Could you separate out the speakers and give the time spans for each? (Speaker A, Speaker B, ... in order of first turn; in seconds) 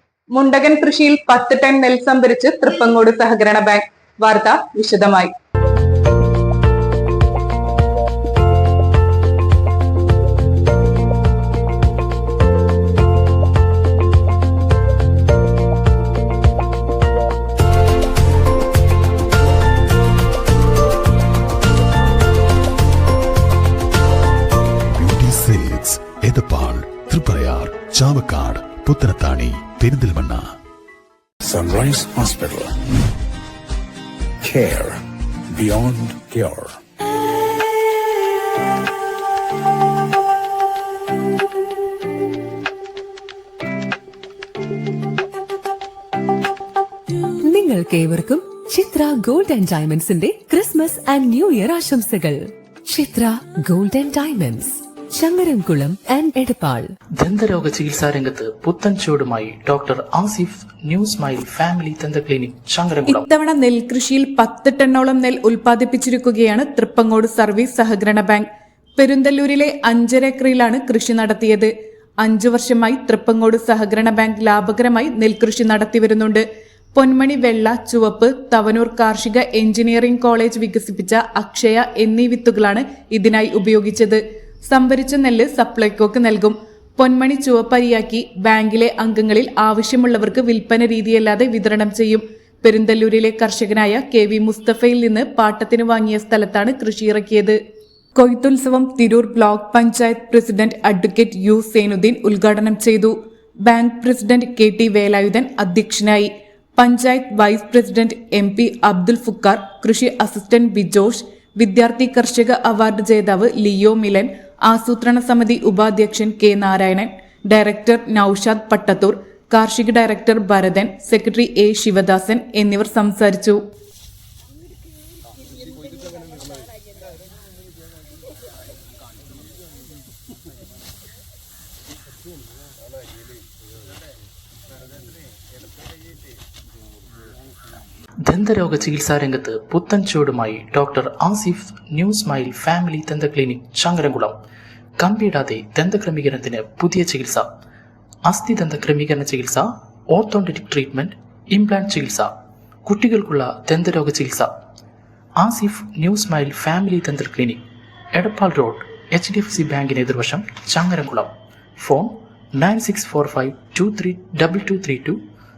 Speaker A: 0.3-5.3
Speaker B: 24.9-30.5
Speaker C: 31.4-32.7, 34.4-36.8
Speaker D: 47.5-56.9
Speaker E: 57.2-63.2, 138.2-144.4, 145.0-147.5, 148.3-152.3, 152.8-154.5, 155.4-157.6, 158.1-165.2
Speaker F: 63.1-71.7, 72.2-97.6, 98.1-123.6